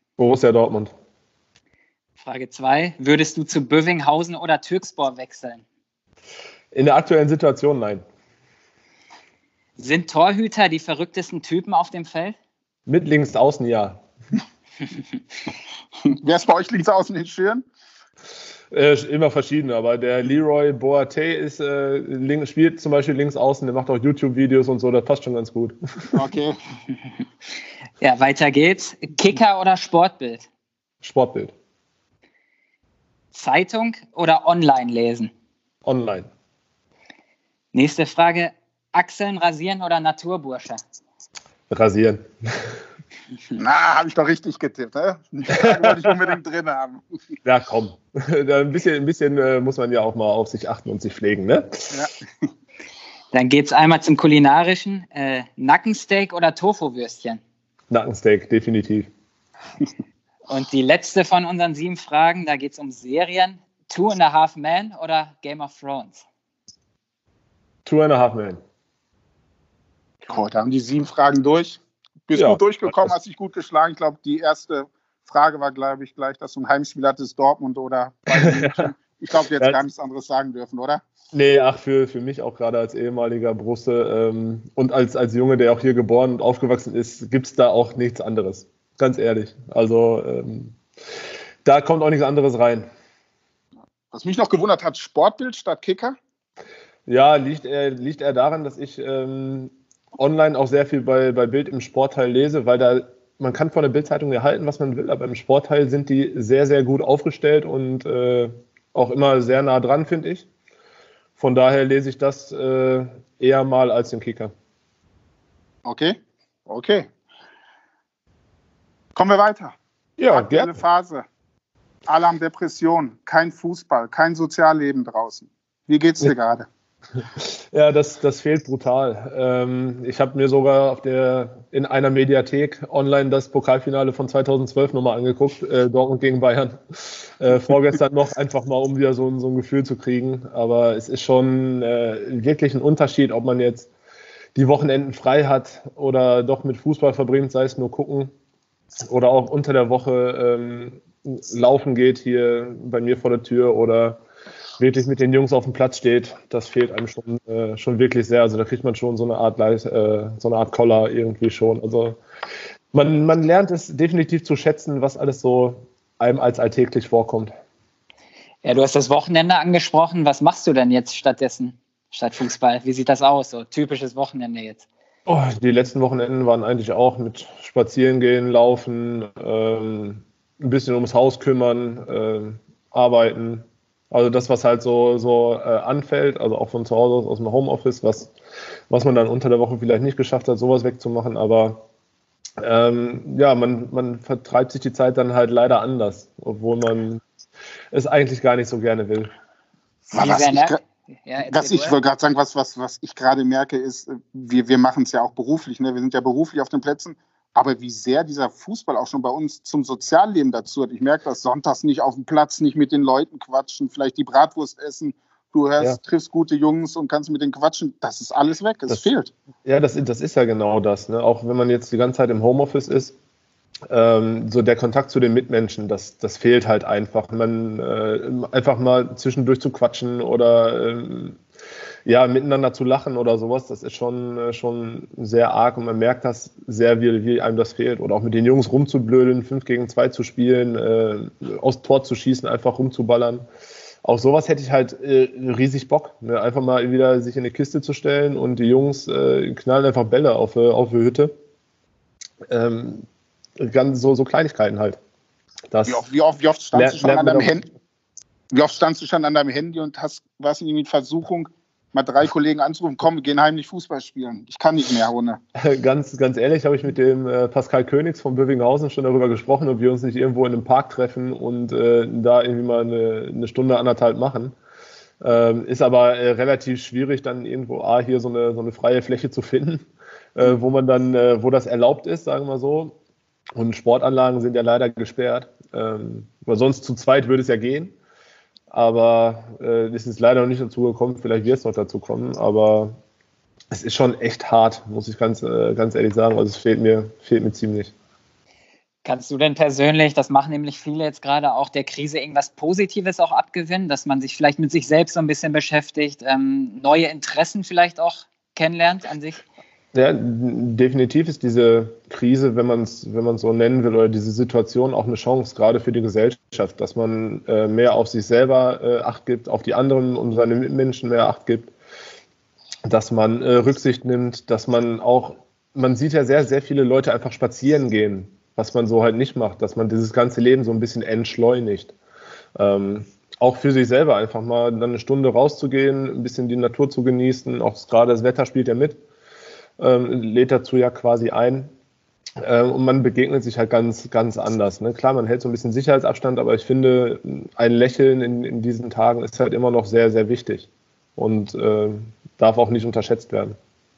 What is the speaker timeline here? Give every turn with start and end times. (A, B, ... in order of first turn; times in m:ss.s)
0:00.2-0:00.9 A
0:02.2-0:05.6 B
0:06.7-0:08.0 A
0:09.8-0:12.4 B
0:12.9-0:14.0 A
0:16.0-0:17.7 C
0:18.7-0:26.2 A
0:26.1-0:26.6 C
0:28.0-0:30.5 B
0:31.0-0:31.5 A
0:33.3-0:35.3 B
0:35.8-0:36.3 A
0:37.7-0:40.8 B
0:41.7-0:42.8 A
0:43.6-0:47.1 C
0:45.5-0:46.1 A
0:47.4-0:51.9 A
0:53.3-0:57.4 B
0:57.9-0:59.1 A
1:00.5-1:06.2 B
1:07.9-1:08.6 A
1:10.3-1:21.0 C
1:12.3-1:13.1 A
1:18.3-1:18.8 A
1:21.3-1:30.8 A
1:31.6-1:32.9 A
1:34.1-1:36.2 C
1:37.1-1:50.5 A
1:51.4-1:54.5 A
1:55.8-1:57.1 C
1:59.1-1:59.8 C
2:00.2-2:00.8 A
2:00.3-2:01.2 C
2:02.1-2:06.7 C
2:07.4-2:23.9 A
2:24.6-2:28.3 A
2:29.1-2:34.2 A
2:34.8-2:42.2 A
2:42.9-2:47.6 A
2:48.6-2:54.9 B
2:55.2-3:08.3 A
3:08.9-3:11.8 A
3:12.6-3:17.2 A
3:17.9-3:19.4 A
3:20.1-3:20.8 C
3:20.1-3:22.0 B
3:21.4-3:39.3 C
3:39.6-3:43.1 A
3:43.9-3:51.4 A
3:52.1-4:03.4 A
4:04.0-4:11.3 A
4:12.5-4:13.0 A
4:13.6-4:15.0 A
4:15.7-4:16.0 A
4:15.9-4:17.7 C
4:16.7-4:17.6 A
4:18.5-4:25.4 C
4:25.6-4:34.6 A
4:35.2-4:43.0 A
4:43.6-4:47.9 A
4:48.7-4:53.0 A
4:53.7-4:57.9 A
4:59.0-5:09.4 B
5:09.9-5:21.7 A
5:22.9-5:31.9 A
5:32.6-5:39.0 A
5:39.8-5:41.7 A
5:42.4-5:53.6 A